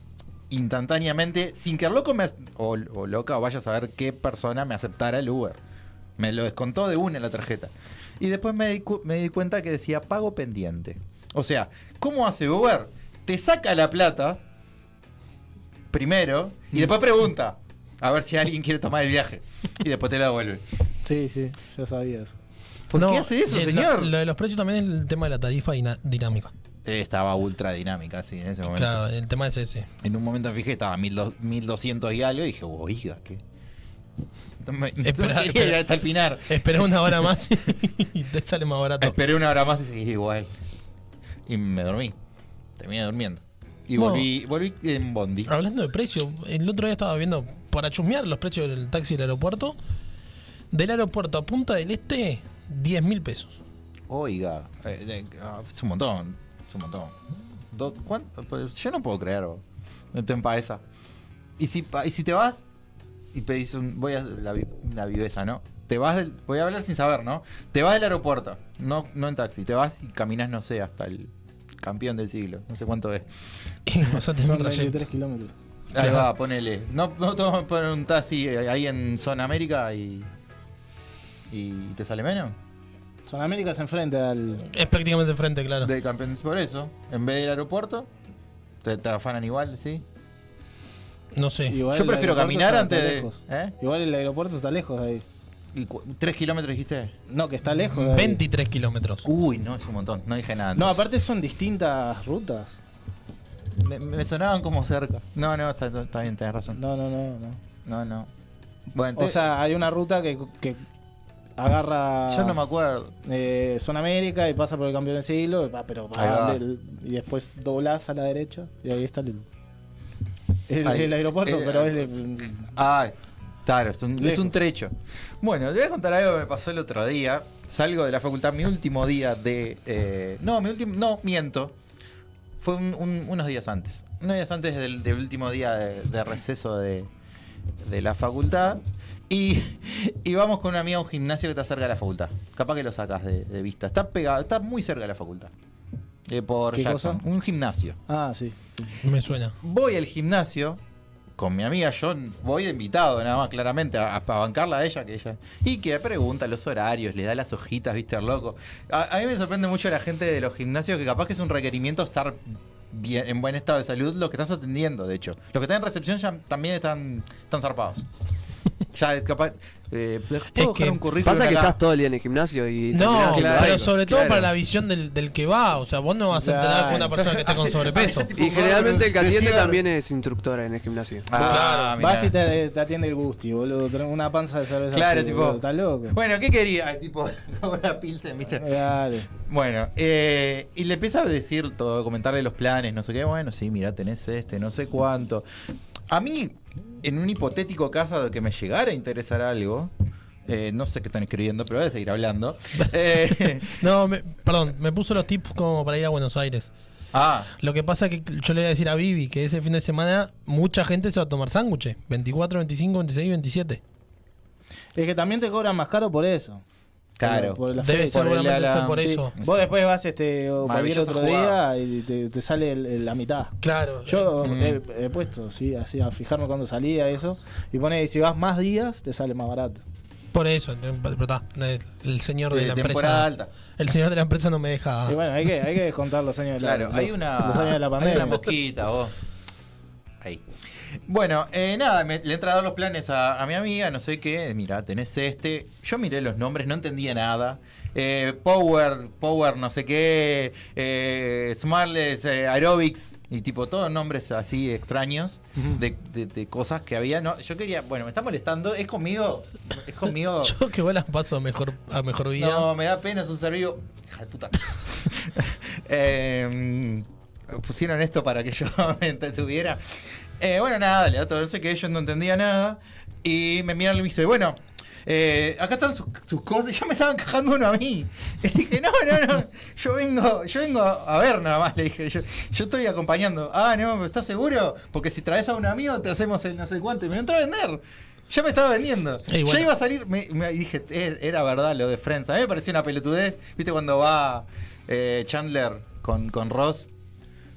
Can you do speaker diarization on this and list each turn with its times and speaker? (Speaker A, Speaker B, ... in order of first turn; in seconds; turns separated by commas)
Speaker A: 0.5-5.6, Speaker A: 6.2-14.4, Speaker A: 15.9-20.6, Speaker B: 21.0-22.4, Speaker A: 22.9-24.1, Speaker C: 22.9-26.5, Speaker A: 26.9-29.0, Speaker C: 28.7-29.9, Speaker A: 30.0-33.4, Speaker A: 34.6-36.6, Speaker C: 35.0-35.8, Speaker C: 36.5-39.1, Speaker A: 39.0-40.5, Speaker A: 41.5-42.1, Speaker A: 42.8-45.5, Speaker C: 44.0-44.3, Speaker C: 45.5-49.8, Speaker C: 50.7-53.6, Speaker A: 54.1-60.8, Speaker A: 61.6-62.6, Speaker A: 63.3-73.3, Speaker C: 73.9-75.0, Speaker B: 74.4-75.5, Speaker A: 75.9-80.3, Speaker C: 76.0-76.3, Speaker A: 81.5-82.5, Speaker B: 83.3-84.7, Speaker C: 84.7-85.9, Speaker A: 85.8-88.1, Speaker A: 88.8-90.0, Speaker C: 91.3-91.8, Speaker B: 91.7-95.2, Speaker A: 91.9-93.7, Speaker A: 95.7-97.1, Speaker B: 97.3-98.4, Speaker C: 98.0-99.3, Speaker A: 99.2-101.0, Speaker B: 100.7-102.8, Speaker A: 103.7-106.8, Speaker B: 106.7-107.6, Speaker A: 107.8-108.3, Speaker A: 108.9-109.5, Speaker B: 109.2-110.8, Speaker B: 111.6-112.6, Speaker A: 112.3-113.1, Speaker B: 113.2-119.5, Speaker A: 116.1-116.6, Speaker B: 120.7-122.7, Speaker A: 120.8-122.1, Speaker A: 122.7-131.8, Speaker B: 124.2-124.5, Speaker A: 132.6-137.1, Speaker A: 137.8-145.5, Speaker A: 146.3-148.0, Speaker B: 146.7-147.2, Speaker B: 148.1-148.6, Speaker C: 149.0-149.6, Speaker A: 149.6-150.8, Speaker A: 151.3-168.1, Speaker A: 168.9-171.8, Speaker C: 170.5-171.0, Speaker D: 171.2-174.1, Speaker C: 172.9-178.3, Speaker A: 173.1-174.5, Speaker B: 176.3-177.1, Speaker A: 176.9-179.8, Speaker D: 178.4-181.3, Speaker A: 181.3-182.3, Speaker C: 181.4-181.9, Speaker B: 181.4-186.2, Speaker A: 184.9-188.7, Speaker B: 188.6-189.3, Speaker A: 189.3-195.4, Speaker A: 196.1-199.9, Speaker A: 200.4-203.8, Speaker C: 203.5-206.7, Speaker A: 207.1-207.5, Speaker C: 207.6-213.8, Speaker B: 214.9-216.6, Speaker A: 217.2-219.6, Speaker B: 217.2-218.4, Speaker C: 217.8-219.3, Speaker B: 218.9-223.5, Speaker A: 220.6-221.6, Speaker C: 223.6-224.3, Speaker B: 224.1-229.8, Speaker A: 224.4-224.8, Speaker C: 230.3-235.2, Speaker A: 232.5-233.5, Speaker B: 235.1-238.4, Speaker A: 236.6-239.1, Speaker A: 241.1-260.6, Speaker C: 260.4-262.7, Speaker A: 262.4-269.8, Speaker A: 270.4-296.9, Speaker C: 289.3-289.7